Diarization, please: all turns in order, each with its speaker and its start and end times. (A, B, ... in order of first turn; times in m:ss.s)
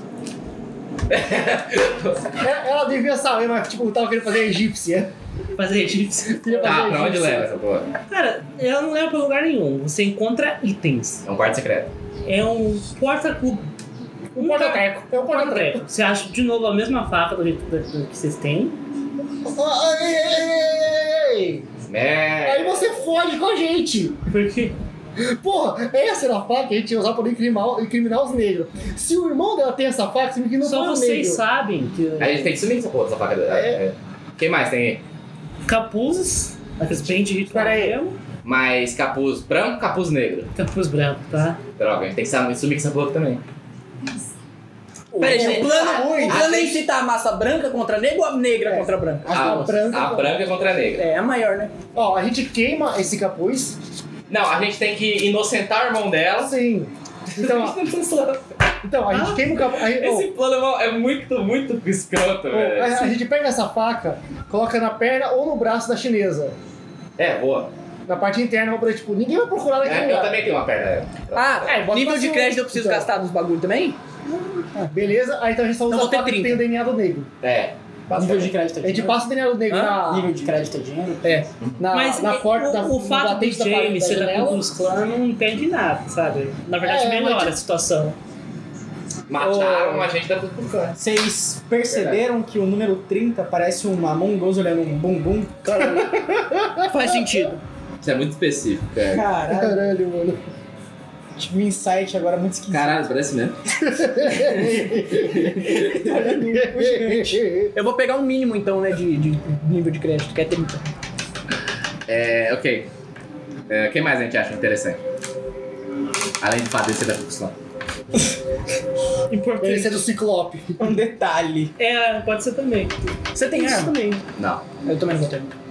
0:01.1-0:02.3 A
0:02.4-0:05.1 B
0:05.6-0:06.8 C
0:06.4-0:07.5 B
0:06.6-0:07.9 A
0:08.1-0:11.2 C
0:11.2-0:11.9 A
0:12.3-0:13.7 C
0:14.3-0:15.8 B
0:14.4-0:18.8 C
0:19.4-0:21.7 B
0:21.9-0:23.0 A
0:22.4-0:24.2 B
0:24.3-0:24.8 C
0:25.2-0:31.4 B
0:30.6-0:32.5 C
0:32.2-0:35.0 A
0:33.5-0:33.8 B
0:35.7-0:38.2 C
0:37.5-0:38.0 B
0:38.4-0:40.5 A
0:40.6-0:41.6 C
0:41.8-0:43.4 A
0:45.1-0:49.3 D
0:45.2-0:46.5 B
0:45.2-0:46.8 A
0:48.7-0:50.4 B
0:49.2-0:50.1 E
0:49.3-0:51.0 A
0:51.0-0:51.8 D
0:52.0-0:53.8 B
0:54.3-0:56.6 A
0:56.4-0:57.8 B
0:57.3-0:58.5 A
0:58.8-1:00.3 B
0:59.1-0:59.4 C
0:59.5-1:03.1 A
1:02.5-1:06.6 B
1:07.2-1:07.7 A
1:08.1-1:10.4 B
1:09.8-1:11.8 A
1:11.3-1:14.0 D
1:11.6-1:13.1 B
1:14.9-1:17.3 B
1:15.9-1:16.6 D
1:17.4-1:18.6 A
1:18.2-1:19.2 E
1:18.8-1:20.3 B
1:19.7-1:20.0 D
1:19.9-1:21.4 E
1:21.2-1:21.5 D
1:21.8-1:24.6 B
1:21.9-1:28.2 C
1:26.8-1:27.6 B
1:29.3-1:31.0 A
1:29.4-1:30.1 D
1:31.0-1:36.3 E
1:31.9-1:32.2 A
1:35.8-1:37.4 B
1:36.9-1:37.6 D
1:38.0-1:39.2 A
1:39.1-1:39.8 E
1:39.5-1:40.4 B
1:41.4-1:43.1 E
1:42.7-1:43.6 A
1:43.9-1:47.7 B
1:44.4-1:46.2 E
1:45.4-1:46.1 A
1:45.9-1:50.8 D
1:52.1-1:52.9 A
1:53.7-1:55.0 A
1:56.4-1:57.6 A
1:59.3-2:00.1 C
1:59.6-2:01.0 B
2:00.8-2:01.7 E
2:01.8-2:04.0 C
2:03.3-2:04.2 D
2:04.4-2:04.6 A
2:04.8-2:05.5 D